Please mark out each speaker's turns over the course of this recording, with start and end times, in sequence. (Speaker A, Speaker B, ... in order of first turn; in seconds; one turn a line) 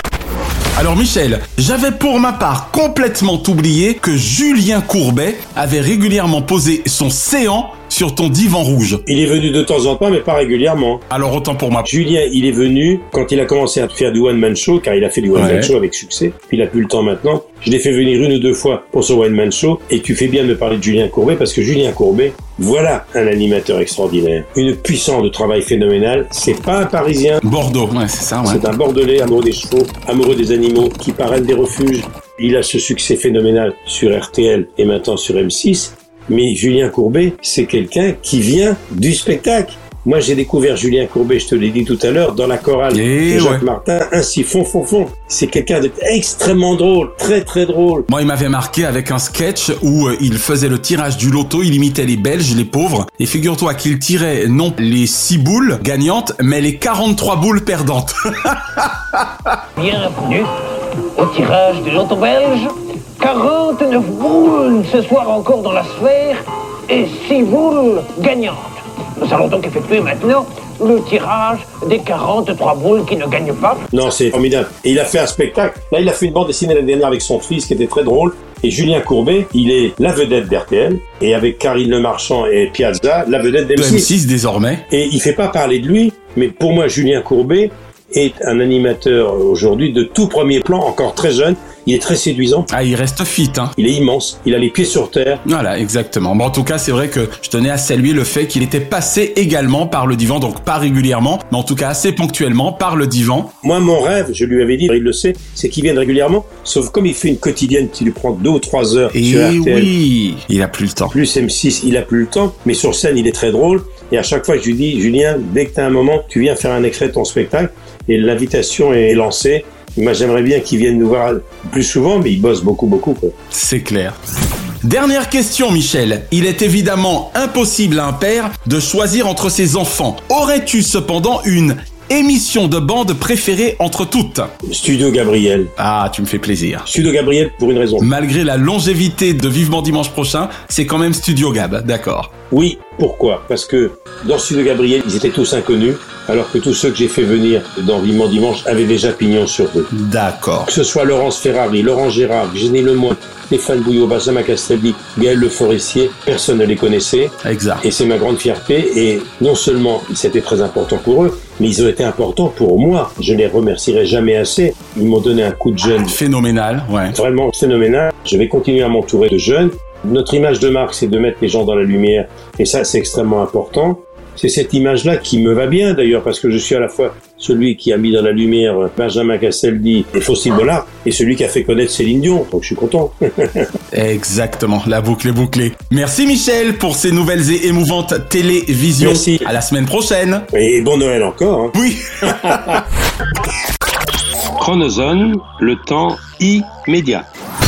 Speaker A: 0.8-9.0
Speaker B: 9.1-11.0
Speaker A: 11.1-11.9
Speaker B: 11.8-27.4
Speaker A: 15.3-15.7
Speaker A: 27.4-28.6
Speaker B: 28.4-48.1
Speaker A: 42.9-43.6
Speaker A: 48.1-59.2
Speaker C: 59.8-60.5
Speaker C: 61.2-62.7
Speaker C: 63.2-66.4
Speaker C: 66.9-73.8
Speaker B: 73.9-84.1
Speaker A: 83.8-84.8
Speaker B: 84.9-92.7
Speaker A: 92.7-93.7
Speaker B: 93.8-95.4
Speaker A: 95.5-103.5
Speaker B: 103.6-109.9
Speaker A: 109.1-111.1
Speaker B: 111.1-123.3
Speaker A: 123.5-124.2
Speaker A: 124.8-134.5
Speaker B: 134.6-135.7
Speaker A: 135.8-136.8
Speaker B: 136.8-138.1
Speaker A: 138.0-142.3
Speaker B: 142.5-149.9
Speaker A: 149.9-150.7
Speaker B: 150.6-166.2
Speaker A: 157.4-157.8
Speaker A: 165.9-167.2
Speaker B: 167.1-183.7
Speaker A: 183.9-190.4
Speaker B: 189.0-189.5
Speaker B: 190.5-192.8
Speaker A: 191.7-192.8
Speaker B: 196.4-197.2